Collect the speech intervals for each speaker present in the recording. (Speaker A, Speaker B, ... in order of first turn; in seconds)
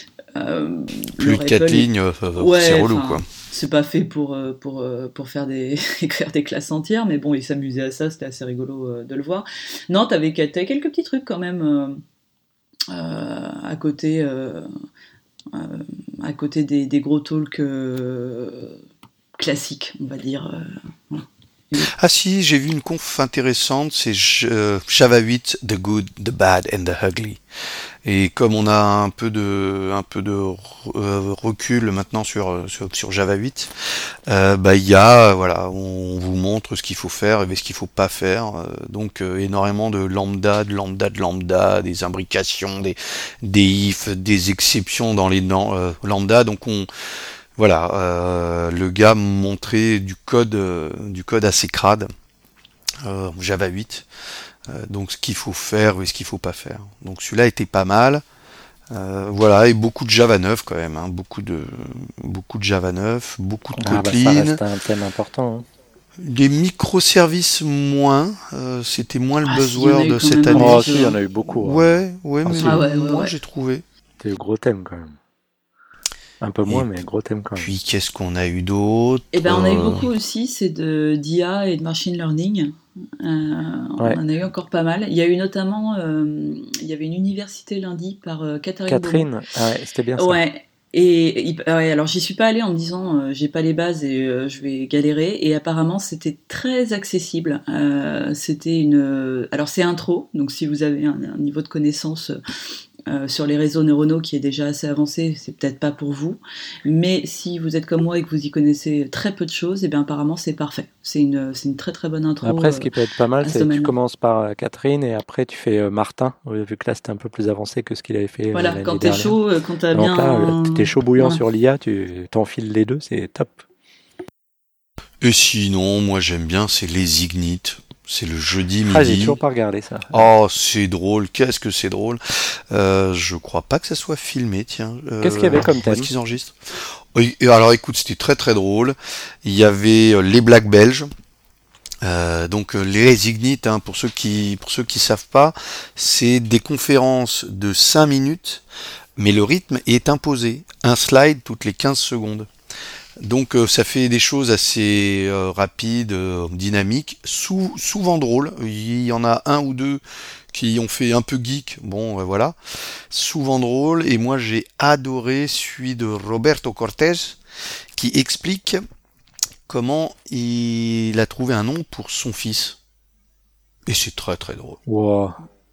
Speaker A: 0.3-12.0, 12.9-14.7, 15.5-18.8, 19.4-21.9, 69.4-71.2, 72.6-73.3, 79.3-89.3, 90.2-102.4, 103.1-113.9, 118.5-121.4
Speaker B: 1.2-3.2, 21.9-27.4, 28.0-33.7, 34.3-46.9, 47.6-52.1, 53.0-54.1, 54.7-58.2, 58.9-64.6, 66.2-73.8, 77.6-80.1, 125.2-129.4, 130.1-136.6, 137.1-141.1, 142.0-148.6, 149.2-152.5, 153.2-160.0, 160.5-162.6, 163.1-167.4, 167.9-168.8, 169.7-172.8, 173.9-174.8
Speaker C: 63.8-65.6, 70.5-71.9, 72.4-72.8, 74.2-75.2, 76.4-77.7, 88.9-90.4, 112.4-119.4, 119.9-123.6, 128.9-130.2, 135.2-136.1, 174.9-175.4